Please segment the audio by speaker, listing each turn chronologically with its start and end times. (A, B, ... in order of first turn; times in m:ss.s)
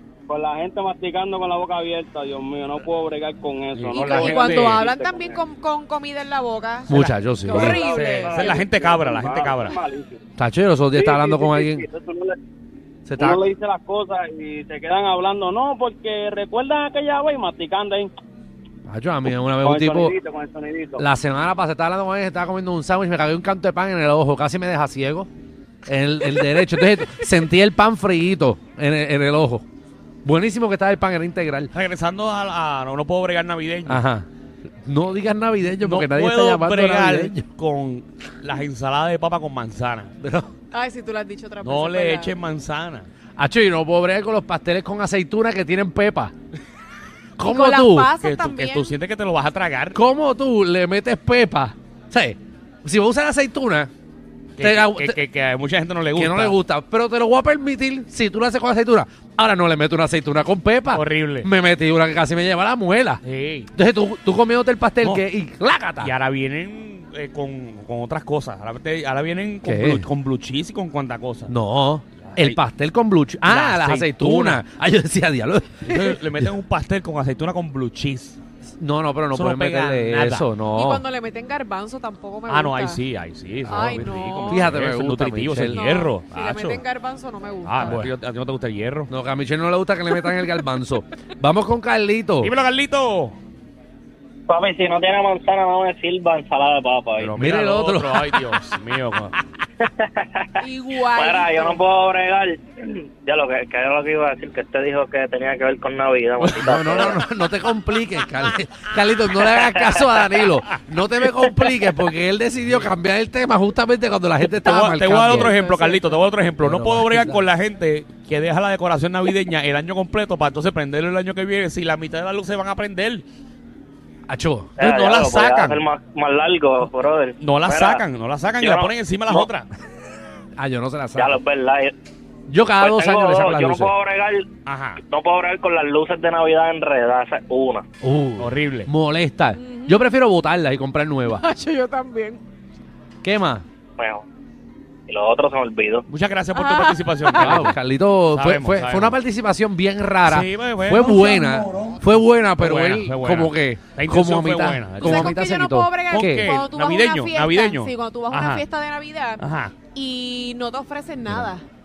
0:00.3-0:05.4 A
0:03.7-0:04.8 B
0:03.9-0:06.9 C
0:06.9-0:09.8 B
0:06.9-0:07.8 D
0:07.4-0:08.6 C
0:07.7-0:10.2 A
0:10.4-0:11.8 D
0:10.9-0:12.4 A
0:13.1-0:13.4 D
0:13.2-0:18.1 A
0:18.8-0:20.1 D
0:19.6-0:21.0 A
0:21.0-0:25.3 D
0:25.9-0:29.6 D
0:30.2-0:31.7 D
0:31.7-0:34.0 B
0:33.8-0:34.3 D
0:34.8-0:37.4 D
0:35.8-0:40.1 B
0:40.2-0:40.5 D
0:40.7-0:42.3 C
0:41.6-0:43.1 B
0:43.4-0:46.3 D
0:47.4-0:48.1 D
0:47.4-0:48.9 C
0:48.2-0:50.0 B
0:49.9-0:53.9 D
0:54.6-0:56.6 B
0:54.6-0:55.2 D
0:56.1-1:03.2 D
1:00.9-1:01.5 B
1:03.2-1:03.7 B
1:03.7-1:06.1 D
1:06.0-1:11.5 B
1:09.6-1:10.1 D
1:11.5-1:16.5 D
1:12.2-1:12.6 B
1:13.4-1:14.6 B
1:15.8-1:18.4 B
1:18.8-1:21.0 D
1:19.3-1:20.4 B
1:20.8-1:23.0 C
1:22.5-1:26.8 B
1:23.6-1:24.7 C
1:24.5-1:25.9 D
1:25.7-1:28.0 C
1:27.6-1:29.1 B
1:27.8-1:28.1 D
1:29.1-1:32.5 D
1:32.4-1:33.4 B
1:34.5-1:37.3 E
1:37.2-1:39.4 B
1:37.4-1:38.5 D
1:39.9-1:40.4 E
1:40.6-1:41.8 C
1:41.2-1:42.6 E
1:43.2-1:47.1 E
1:46.4-1:55.5 D
1:54.4-2:03.2 B
1:55.2-1:56.3 C
1:56.6-1:57.4 D
2:04.3-2:04.7 D
2:04.8-2:05.8 B
2:04.8-2:08.0 E
2:07.4-2:09.7 B
2:08.6-2:09.4 E
2:10.6-2:11.4 D
2:11.2-2:11.9 E
2:12.5-2:13.9 D
2:12.8-2:14.4 E
2:14.6-2:15.0 B
2:15.1-2:17.8 E
2:18.0-2:21.4 D
2:18.4-2:18.9 B
2:19.6-2:20.0 C
2:21.3-2:22.4 C
2:23.2-2:23.6 D
2:24.0-2:24.2 E
2:25.1-2:26.0 E
2:26.1-2:27.8 B
2:26.5-2:27.7 C
2:27.3-2:36.5 D
2:28.3-2:29.2 B
2:30.2-2:31.4 B
2:32.6-2:35.4 B
2:35.0-2:41.6 C
2:36.1-2:38.6 B
2:39.4-2:39.7 B